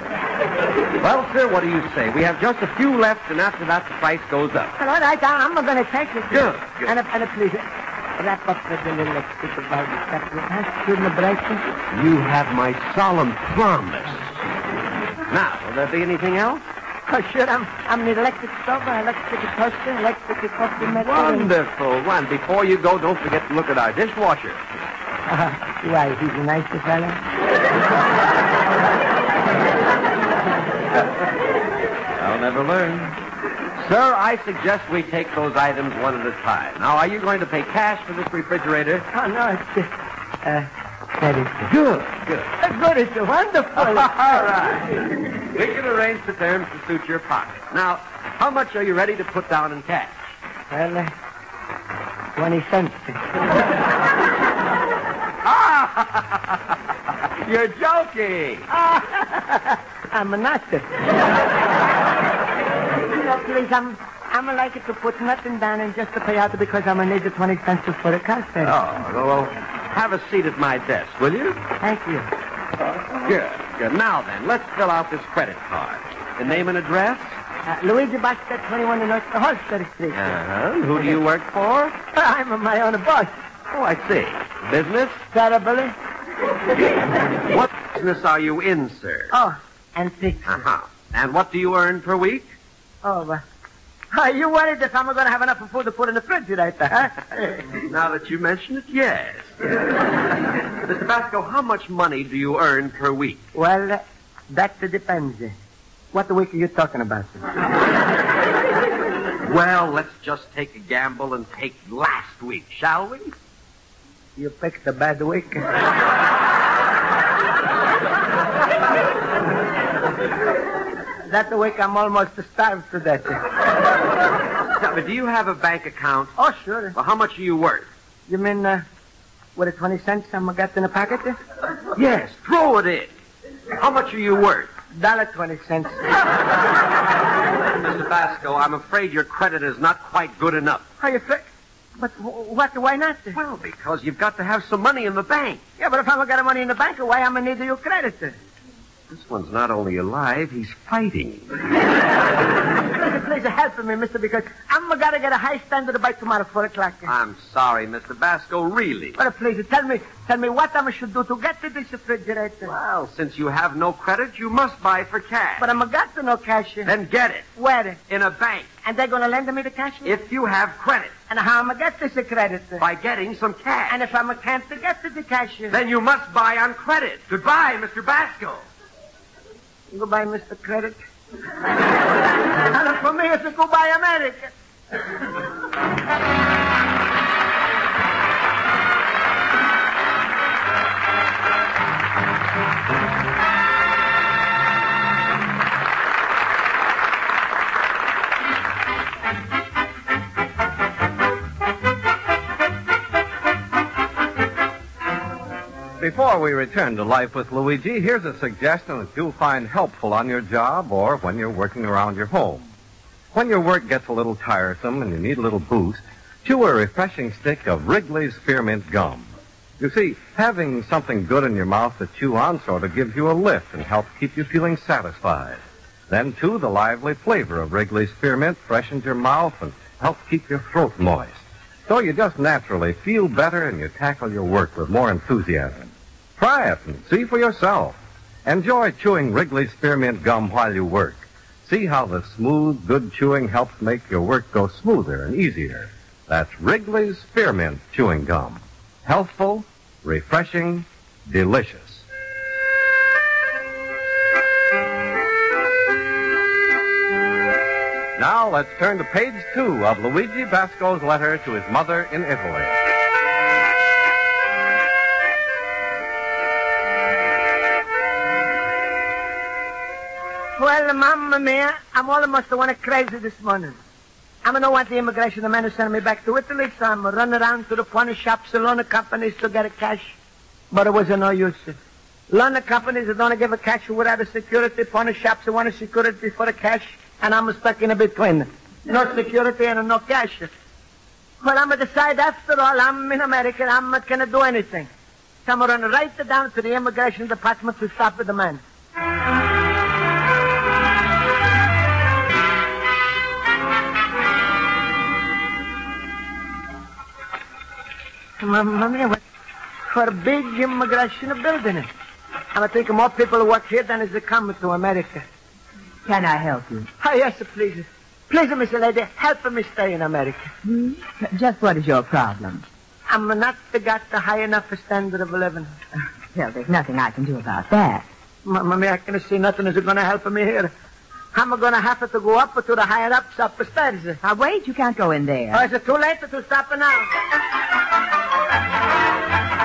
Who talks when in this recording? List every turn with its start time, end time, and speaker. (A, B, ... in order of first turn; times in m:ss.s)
0:01.0-0:04.8 A
0:04.8-0:11.7 B
0:06.3-0:06.9 A
0:11.9-0:14.2 A
0:15.3-0:16.6 A
0:17.1-0:21.5 B
0:20.9-0:24.6 A
0:25.3-0:27.2 B
0:32.2-0:33.2 A
0:33.8-0:39.1 A
0:39.1-0:39.9 B
0:40.4-0:41.7 B
0:41.6-0:42.5 A
0:42.6-0:44.2 B
0:43.8-0:44.9 A
0:45.5-0:50.4 A
0:50.7-0:51.1 B
0:52.4-0:53.3 B
0:55.4-0:56.6 A
0:57.4-0:58.7 A
0:58.7-1:00.9 B
1:03.1-1:08.8 B
1:08.6-1:11.6 A
1:11.8-1:12.3 B
1:13.1-1:17.4 A
1:17.7-1:20.3 B
1:20.1-1:22.0 A
1:22.1-1:23.3 B
1:23.7-1:25.2 A
1:25.3-1:25.9 B
1:27.5-1:29.3 A
1:29.3-1:30.6 B
1:30.5-1:32.5 A
1:33.0-1:33.4 B
1:34.1-1:37.7 B
1:37.9-1:40.2 A
1:40.7-1:43.4 A
1:43.5-1:45.6 B
1:46.1-1:47.5 B
1:49.4-1:53.3 A
1:54.4-1:55.7 B
2:01.3-2:03.4 B
2:04.8-2:06.4 A
2:06.4-2:07.0 B
2:06.9-2:07.9 A
2:08.3-2:08.8 B
2:09.6-2:11.4 B
2:11.9-2:13.1 A
2:13.8-2:14.7 A
2:15.0-2:16.1 B
2:17.6-2:20.8 A
2:21.0-2:23.4 B
2:23.4-2:25.6 A
2:25.8-2:28.4 B
2:29.1-2:31.6 A
2:32.9-2:37.1 B
2:37.1-2:39.2 A
2:39.2-2:42.7 B
2:42.6-2:45.7 A
2:45.6-2:46.9 B
2:46.8-2:47.4 A
2:47.6-2:48.0 B
2:48.1-2:48.7 A
2:48.8-2:50.2 B
2:50.0-2:51.1 A
2:51.3-2:52.9 B
2:52.8-2:54.0 A
2:53.9-2:55.8 B
2:55.7-2:58.6 A
2:59.9-3:01.0 B
3:02.7-3:04.5 B
3:26.0-3:32.7 C
3:33.3-4:12.0 C
4:18.2-4:22.8 C
4:30.6-4:33.8 B
4:34.4-4:40.2 B
4:40.7-4:41.8 B
4:42.3-4:50.5 B
4:51.4-4:54.9 B
4:55.4-4:58.6 B
5:08.4-5:09.2 B
5:09.9-5:11.9 B
5:12.5-5:15.2 B
5:16.1-5:16.9 D
5:17.0-5:20.5 B
5:20.6-5:22.7 D
5:23.1-5:25.7 B
5:26.3-5:28.1 D
5:28.4-5:30.7 B
5:31.3-5:34.2 B
5:34.2-5:35.7 D
5:35.5-5:37.1 B